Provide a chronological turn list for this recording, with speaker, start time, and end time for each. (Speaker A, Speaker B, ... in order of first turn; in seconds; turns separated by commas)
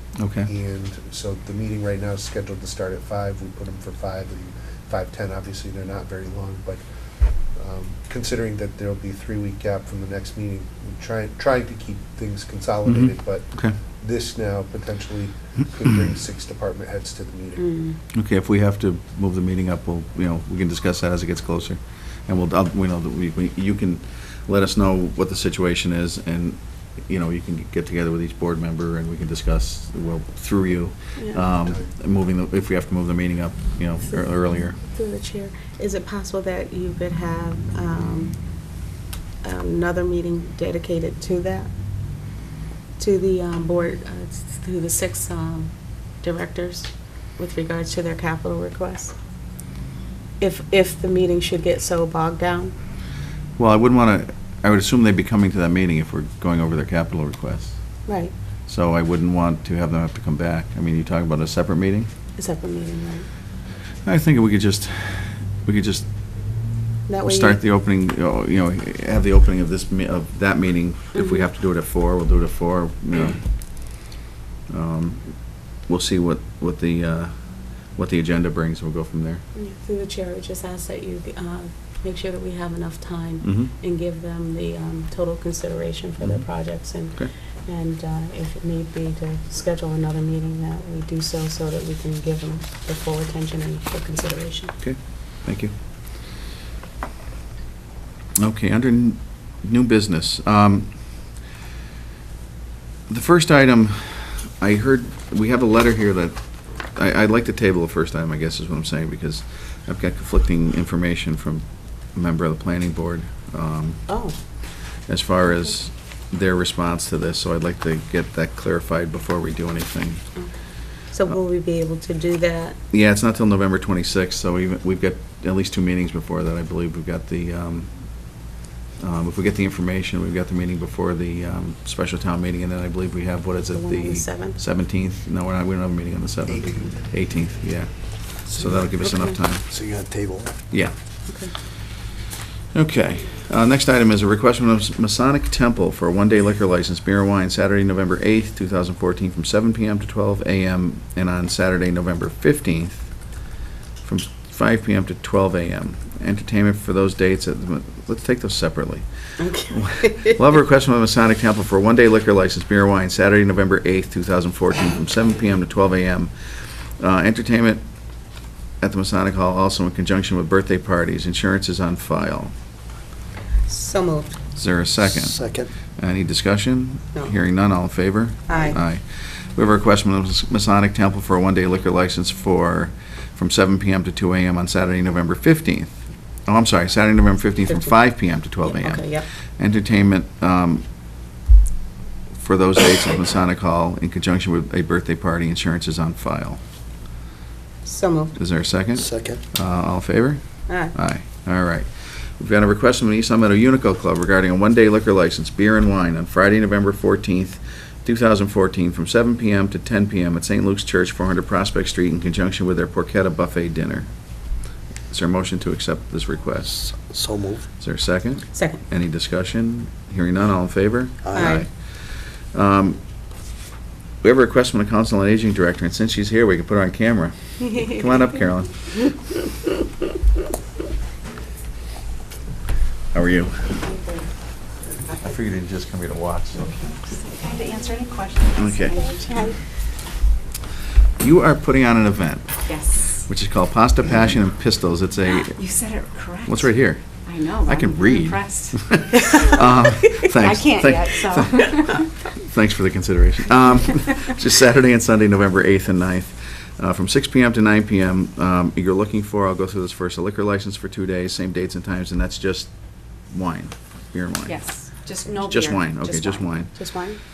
Speaker A: 0.2-0.5, Speaker B: 0.5-6.8, Speaker B: 7.5-17.6, Speaker A: 12.8-13.7, Speaker C: 17.6-18.0, Speaker A: 18.1-34.8, Speaker C: 31.1-31.5, Speaker B: 31.6-31.9, Speaker C: 34.1-38.4, Speaker C: 39.4-41.7, Speaker C: 43.0-49.1, Speaker C: 50.4-52.7, Speaker A: 53.6-58.1, Speaker C: 58.0-58.4, Speaker A: 58.6-62.1, Speaker C: 62.4-63.3, Speaker A: 64.0-66.7, Speaker C: 67.1-67.6, Speaker A: 67.2-74.1, Speaker C: 71.1-71.5, Speaker A: 74.7-79.4, Speaker C: 79.5-94.8, Speaker A: 83.4-83.7, Speaker A: 86.2-87.3, Speaker A: 94.8-95.7, Speaker A: 98.4-101.3, Speaker A: 103.1-106.4, Speaker A: 106.9-114.1, Speaker C: 114.1-114.4, Speaker A: 115.1-120.2, Speaker C: 120.3-122.8, Speaker A: 122.9-128.5, Speaker A: 129.0-139.7, Speaker C: 133.7-134.6, Speaker B: 136.5-136.9, Speaker D: 138.5-139.1, Speaker C: 139.1-139.4, Speaker D: 139.6-140.5, Speaker C: 141.3-141.5, Speaker A: 142.7-153.1, Speaker A: 154.0-159.0, Speaker C: 159.4-160.4, Speaker A: 159.7-166.3, Speaker A: 167.0-167.8, Speaker A: 168.8-172.5, Speaker C: 173.7-174.4, Speaker A: 174.6-175.4, Speaker D: 175.1-175.7, Speaker A: 176.0-185.9, Speaker C: 178.5-178.8, Speaker A: 186.5-190.8, Speaker C: 187.7-187.9, Speaker C: 188.6-189.2, Speaker A: 192.4-196.6, Speaker C: 197.8-198.3, Speaker A: 198.3-214.1, Speaker D: 198.9-199.4, Speaker C: 200.7-200.9, Speaker A: 215.1-216.9, Speaker D: 216.9-217.6, Speaker A: 217.8-223.0, Speaker C: 218.5-218.8, Speaker D: 221.2-221.6, Speaker C: 221.3-221.7, Speaker A: 224.2-229.0, Speaker A: 233.1-233.8, Speaker C: 233.8-234.2, Speaker A: 235.2-236.7, Speaker E: 237.3-239.4, Speaker A: 238.6-239.0, Speaker C: 239.0-239.6, Speaker A: 241.2-245.6, Speaker E: 242.7-243.2, Speaker E: 245.3-246.7, Speaker A: 246.4-264.6, Speaker E: 247.2-252.1, Speaker E: 264.5-266.5, Speaker A: 265.4-267.0, Speaker C: 266.7-267.2